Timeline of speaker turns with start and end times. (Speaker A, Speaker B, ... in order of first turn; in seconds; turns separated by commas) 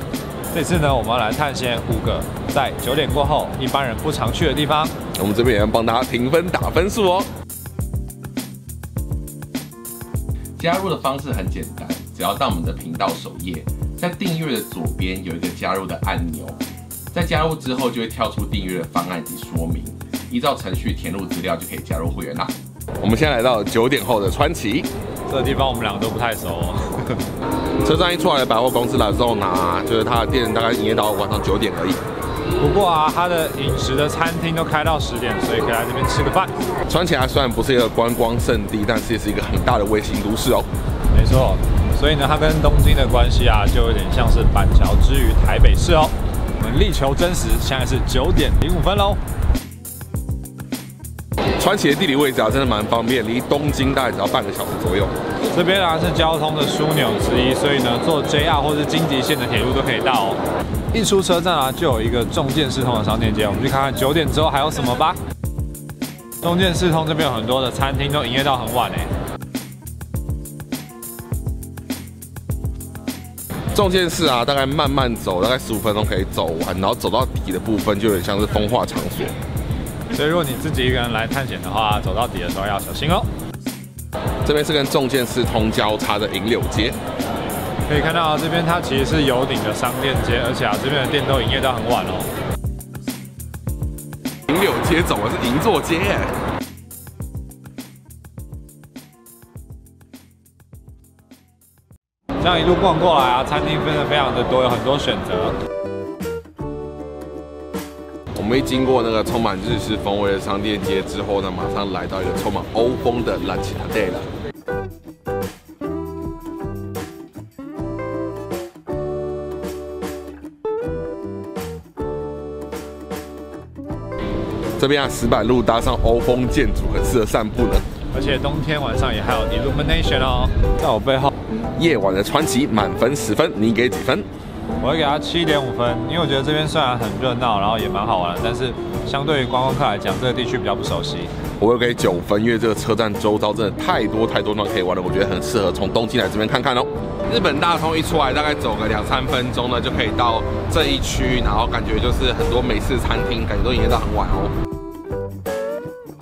Speaker A: 0.5-4.9, Speaker B: 5.1-7.3, Speaker B: 10.6-16.6, Speaker B: 17.1-24.9, Speaker A: 25.3-27.3, Speaker B: 27.8-32.0, Speaker A: 32.6-36.5, Speaker B: 36.9-40.7, Speaker A: 41.1-49.2, Speaker B: 51.6-55.1, Speaker A: 55.5-60.4, Speaker A: 60.9-65.2, Speaker A: 66.4-69.1, Speaker B: 73.7-79.3, Speaker A: 80.1-83.3, Speaker B: 84.4-87.0, Speaker A: 87.9-92.3, Speaker B: 94.5-96.3, Speaker A: 102.4-105.5, Speaker B: 108.3-114.3, Speaker B: 124.8-127.8, Speaker A: 128.1-131.3, Speaker B: 131.8-134.2, Speaker A: 134.8-141.3, Speaker B: 141.6-154.5